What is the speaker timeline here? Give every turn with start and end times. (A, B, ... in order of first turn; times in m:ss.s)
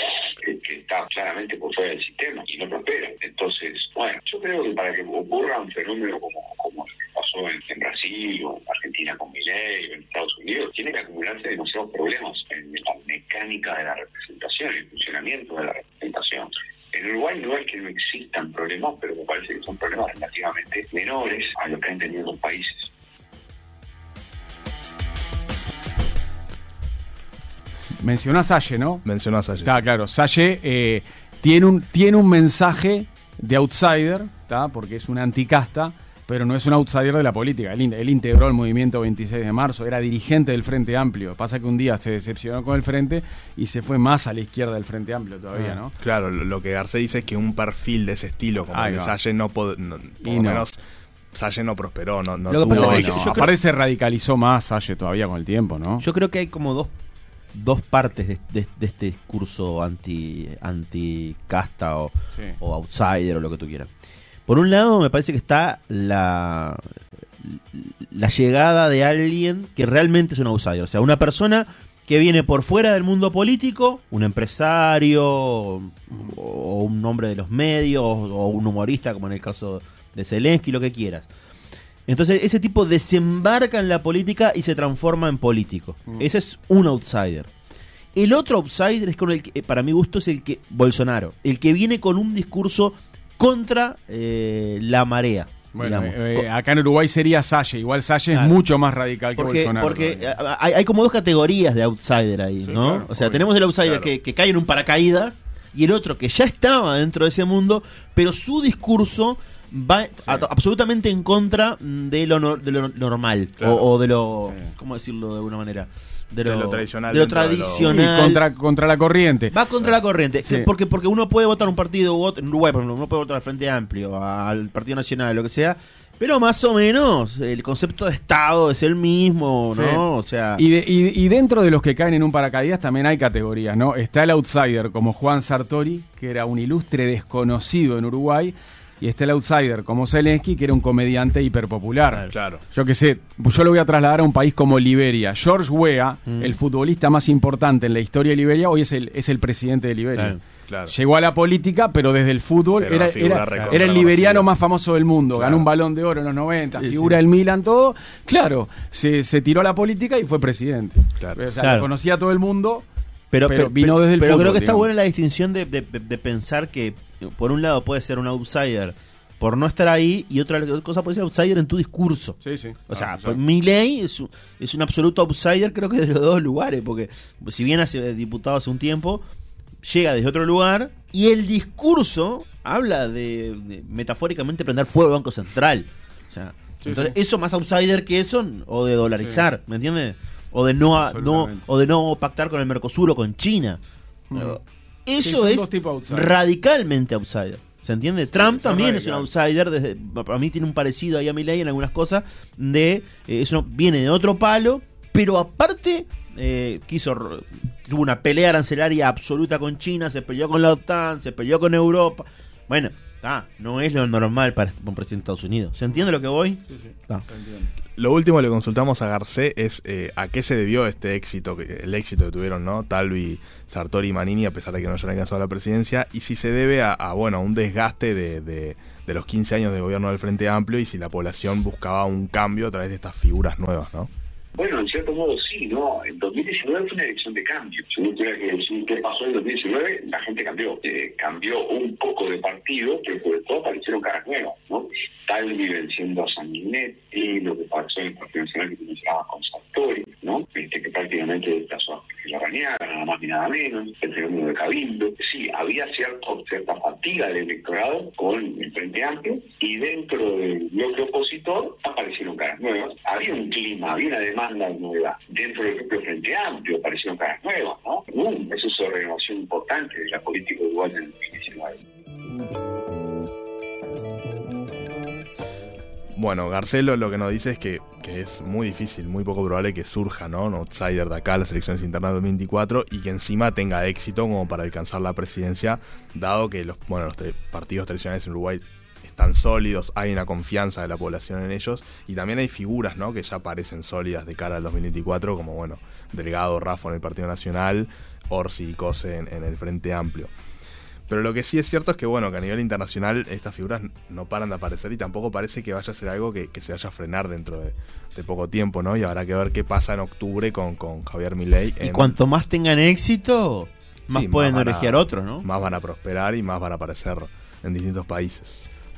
0:00.4-0:22.9 A
0:28.0-0:29.0 B
0:29.0-0:29.8 C
0:29.6-0:45.9 B
0:46.0-0:50.8 C
0:48.7-0:49.1 B
0:50.2-0:50.6 B
0:51.3-0:53.5 C
0:52.5-0:53.5 D
0:52.7-0:56.0 B
0:56.0-0:56.9 D
0:57.5-1:03.9 D
1:04.4-1:21.3 D
1:22.0-1:27.5 D
1:28.1-1:36.4 D
1:35.7-1:40.3 B
1:38.3-1:38.6 D
1:39.3-1:58.4 D
1:42.6-1:43.4 B
1:43.8-1:44.1 C
1:53.6-1:53.9 C
1:56.4-1:58.0 C
1:57.8-1:59.5 B
1:59.5-2:10.6 D
2:09.7-2:10.0 B
2:10.6-2:30.4 B
2:22.3-2:22.6 C
2:26.2-2:26.6 D
2:30.7-2:30.9 C
2:30.9-2:42.8 B
2:32.8-2:34.5 C
2:35.3-2:35.6 C
2:36.7-2:37.2 D
2:41.6-2:41.9 D
2:43.3-2:59.2 D
2:43.4-2:44.9 B
2:52.4-2:53.4 B
2:59.8-3:13.8 D
3:06.8-3:07.1 B
3:09.2-3:09.4 B
3:11.0-3:11.7 B
3:14.3-3:14.6 B
3:14.3-3:37.2 D
3:15.2-3:16.4 B
3:18.4-3:19.3 B
3:36.7-3:37.7 B
3:38.0-3:54.1 C
3:54.5-4:31.8 A
4:36.1-5:00.3 C
5:01.1-5:12.2 C
5:11.8-5:15.4 D
5:14.1-5:18.6 C